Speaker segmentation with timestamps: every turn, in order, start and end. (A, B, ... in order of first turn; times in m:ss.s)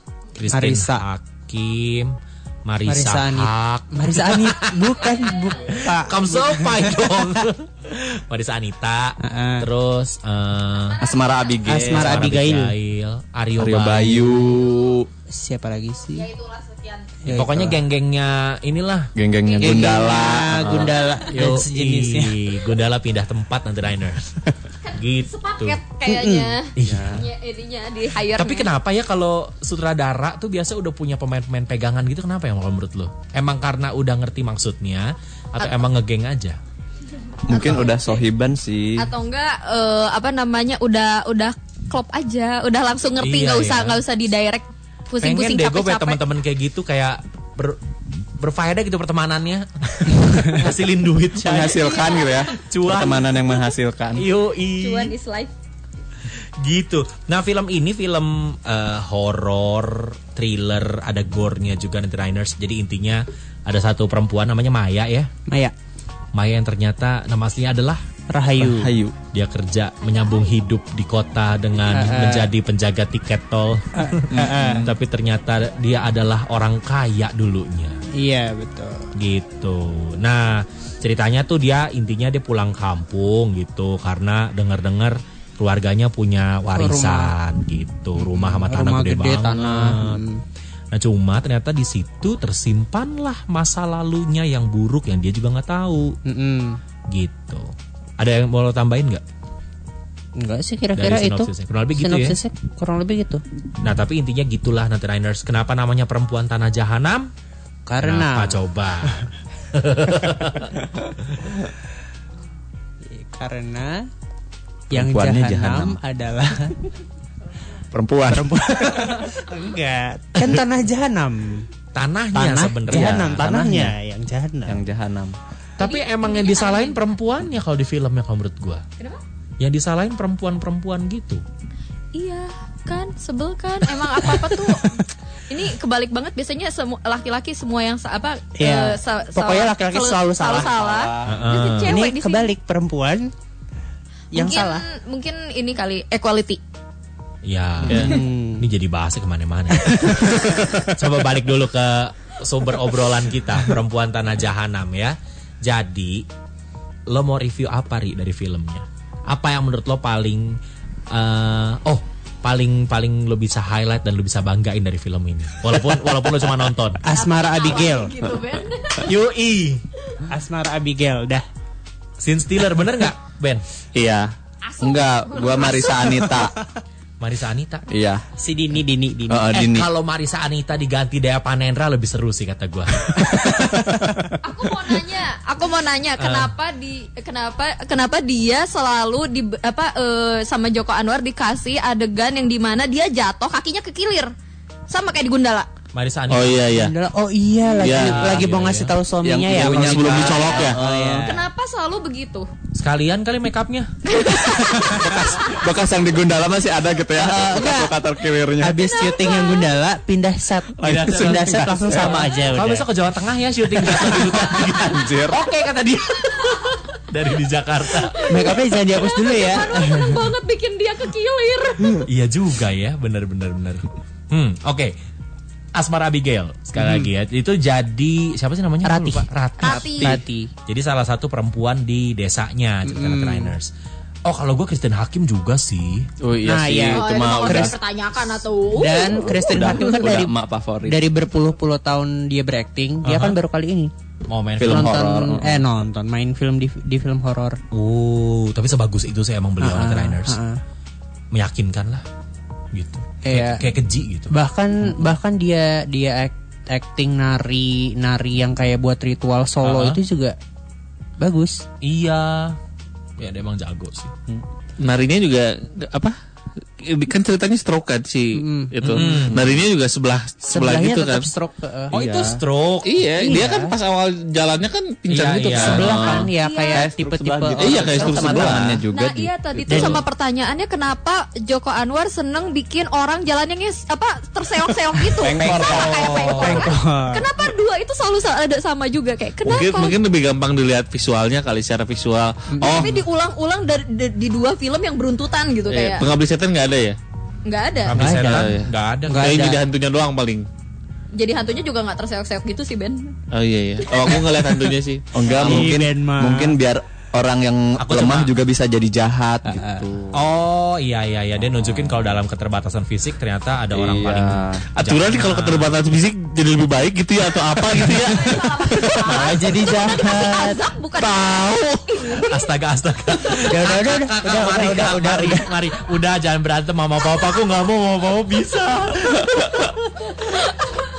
0:00.3-0:02.1 A
0:00.5-0:01.0 B
0:02.7-0:11.0 A
0:02.8-0:07.1 B
0:05.0-0:05.6 C
0:09.2-0:09.6 B
0:10.8-0:12.0 C
0:11.0-0:12.1 D
0:11.6-0:12.7 B
0:11.8-0:14.4 A
0:13.6-0:15.0 D
0:14.3-0:15.0 C
0:15.3-0:16.3 B
0:16.1-0:17.2 C
0:17.2-0:17.8 B
0:17.2-0:19.1 A
0:19.2-0:20.8 D
0:19.4-0:21.4 C
0:19.6-0:22.4 B
0:20.6-0:20.9 E
0:21.3-0:24.4 A
0:24.8-0:28.7 C
0:24.9-0:25.8 A
0:26.0-0:26.6 B
0:26.7-0:27.3 A
0:26.9-0:27.2 D
0:28.3-0:36.6 A
0:37.5-0:39.0 D
0:37.5-0:38.2 C
0:39.0-0:46.2 C
0:43.2-0:44.0 A
0:45.2-0:47.8 A
0:48.4-0:53.3 A
0:51.5-0:54.2 D
0:51.6-0:52.5 C
0:54.1-0:55.1 A
0:54.8-0:55.5 C
0:56.6-1:05.3 A
1:06.3-1:08.0 A
1:08.3-1:09.0 B
1:08.8-1:09.1 D
1:09.3-1:17.9 A
1:11.9-1:12.5 B
1:14.0-1:14.8 B
1:14.4-1:14.9 D
1:18.2-1:19.0 B
1:19.1-1:30.2 A
1:26.7-1:27.3 B
1:28.2-1:30.4 B
1:30.9-1:36.1 A
1:36.2-1:36.8 B
1:37.1-1:39.2 A
1:40.4-1:43.4 B
1:40.9-1:42.4 A
1:43.8-1:47.3 A
1:47.9-1:48.6 B
1:48.0-1:50.7 A
1:53.1-1:54.0 B
1:54.9-1:56.0 D
1:54.9-1:56.7 B
1:57.9-1:58.4 D
1:58.3-2:01.6 B
2:01.9-2:03.9 A
2:02.3-2:04.8 B
2:04.6-2:05.3 D
2:05.8-2:08.8 A
2:05.8-2:07.0 C
2:09.6-2:11.4 A
2:12.1-2:22.5 C
2:18.6-2:20.8 B
2:20.6-2:21.3 D
2:21.3-2:22.0 A
2:21.8-2:23.3 B
2:24.3-2:24.8 B
2:24.3-2:26.6 C
2:27.4-2:36.2 A
2:27.9-2:28.1 E
2:27.9-2:28.2 C
2:27.9-2:28.6 B
2:29.8-2:30.2 B
2:37.1-2:40.6 A
2:41.1-2:47.0 A
2:47.0-2:48.2 B
2:47.1-2:49.1 C
2:49.0-2:49.8 A
2:50.3-2:51.4 B
2:52.2-2:53.6 A
2:54.0-2:54.3 D
2:54.6-2:56.4 C
2:54.8-2:56.5 D
2:57.2-2:57.8 A
2:57.9-2:58.2 D
2:58.4-2:59.5 B
2:59.3-2:59.8 D
2:59.4-3:03.8 A
3:04.4-3:14.3 C
3:06.2-3:06.5 A
3:14.9-3:15.7 C
3:15.9-3:16.7 A
3:16.3-3:16.9 E
3:16.7-3:21.3 B
3:17.8-3:18.4 E
3:17.8-3:18.9 A
3:19.2-3:21.3 D
3:19.6-3:20.8 E
3:20.3-3:20.7 C
3:21.2-3:22.5 C
3:22.7-3:23.9 A
3:24.0-3:25.6 C
3:24.7-3:25.2 B
3:25.0-3:28.8 D
3:27.1-3:32.8 B
3:28.8-3:29.8 C
3:30.8-3:38.3 A
3:31.0-3:32.1 D
3:33.9-3:35.4 D
3:38.2-3:42.0 C
3:38.3-3:40.2 B
3:42.0-3:44.9 A
3:45.7-3:53.7 A
3:46.7-3:47.1 B
3:48.8-3:49.2 B
3:49.6-3:50.2 C
3:50.0-3:50.5 B
3:52.8-3:53.5 B
3:54.2-3:56.1 A
3:56.2-3:57.7 D
3:56.4-3:57.7 B
3:56.9-4:00.1 C
3:58.8-4:03.9 B
3:59.2-4:01.0 D
4:03.0-4:03.4 A
4:04.3-4:05.1 A
4:04.6-4:05.5 D
4:04.6-4:07.6 B
4:07.7-4:10.4 A
4:09.6-4:10.6 B
4:11.3-4:12.0 A
4:12.7-4:14.3 A
4:13.2-4:13.6 B
4:14.3-4:20.4 B
4:19.6-4:20.0 A
4:21.2-4:21.6 B
4:21.8-4:22.6 A
4:23.2-4:24.1 A
4:24.3-4:26.1 E
4:26.8-4:31.3 E
4:28.3-4:28.7 B
4:28.8-4:29.5 A
4:30.5-4:32.0 B
4:31.9-4:32.9 A
4:32.0-4:32.4 D
4:32.8-4:36.3 E
4:33.1-4:33.8 B
4:35.1-4:36.0 A
4:35.5-4:38.6 B
4:36.2-4:36.8 C
4:36.7-4:39.8 D
4:37.6-4:38.8 E
4:38.9-4:50.0 C
4:39.7-4:40.0 B
4:39.7-4:40.0 E
4:45.2-4:46.3 D
4:45.2-4:45.8 B
4:45.6-4:46.7 A
4:46.4-4:47.3 B
4:49.4-4:53.0 E
4:52.5-4:53.0 B
4:52.6-4:56.1 C
4:55.7-4:57.0 E
4:57.4-4:58.0 C
4:57.9-4:59.4 A
4:58.0-4:58.5 B
4:58.0-5:00.5 E
4:59.1-4:59.6 B
5:01.1-5:03.1 C
5:03.3-5:05.8 E
5:05.1-5:10.1 D
5:05.4-5:06.6 B
5:07.8-5:08.4 A
5:09.4-5:09.9 B
5:10.1-5:15.8 A
5:13.7-5:14.6 D
5:14.7-5:19.4 E
5:17.9-5:22.5 C
5:19.1-5:20.6 B
5:21.2-5:21.6 E
5:22.1-5:30.5 A
5:23.4-5:25.5 B